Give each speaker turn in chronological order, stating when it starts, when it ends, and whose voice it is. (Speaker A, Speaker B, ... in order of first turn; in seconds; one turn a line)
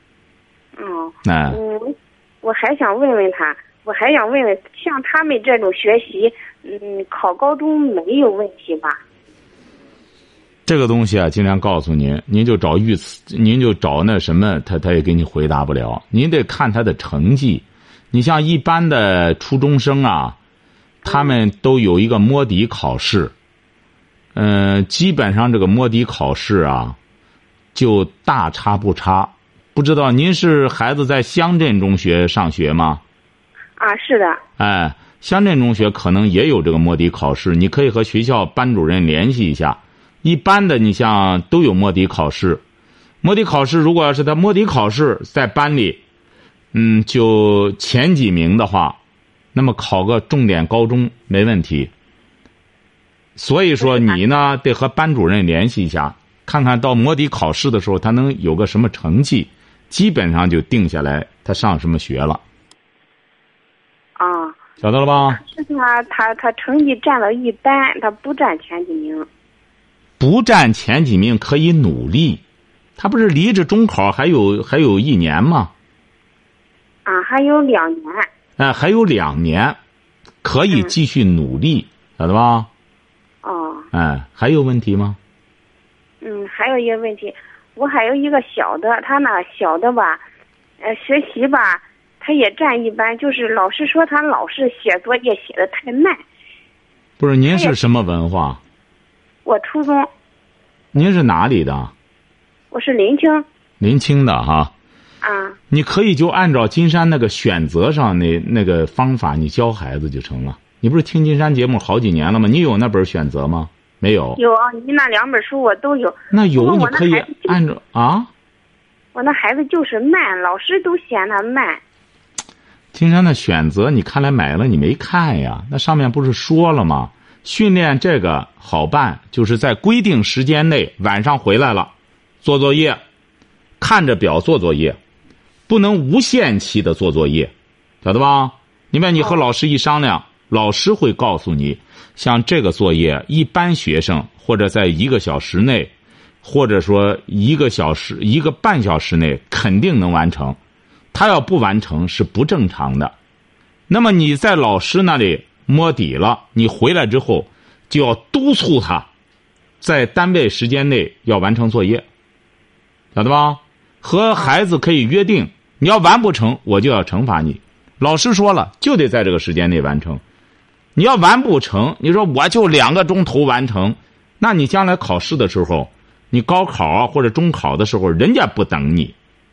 Speaker A: 0.8-9.0
Speaker B: 1.2-1.6
Speaker B: 10.7-20.4
Speaker B: 21.0-23.3
Speaker B: 24.3-27.0
Speaker B: 27.7-33.0
Speaker A: 33.8-34.4
Speaker B: 34.6-42.6
Speaker B: 43.2-46.0
Speaker B: 46.7-49.0
Speaker B: 49.5-51.9
Speaker B: 53.4-62.4
Speaker A: 53.8-54.2
Speaker A: 64.2-64.6
Speaker B: 64.8-65.4
Speaker A: 65.3-69.3
Speaker B: 70.2-72.4
Speaker B: 73.0-75.7
Speaker A: 77.0-78.3
Speaker B: 78.6-79.8
Speaker B: 80.4-82.7
Speaker A: 83.4-83.8
Speaker B: 83.9-85.2
Speaker A: 86.2-90.2
Speaker A: 90.8-96.2
Speaker B: 97.2-98.6
Speaker A: 97.5-97.7
Speaker A: 99.4-100.1
Speaker B: 100.9-101.9
Speaker A: 102.7-103.5
Speaker B: 103.8-104.7
Speaker A: 105.2-105.6
Speaker B: 105.7-114.4
Speaker A: 114.4-117.6
Speaker B: 116.3-118.3
Speaker A: 119.1-121.8
Speaker B: 122.9-133.0
Speaker B: 133.8-135.0
Speaker B: 135.7-137.5
Speaker B: 138.0-145.9
Speaker B: 146.4-150.6
Speaker B: 151.1-153.1
Speaker B: 153.9-159.1
Speaker B: 159.8-162.0
Speaker B: 163.1-170.2
Speaker B: 170.9-179.1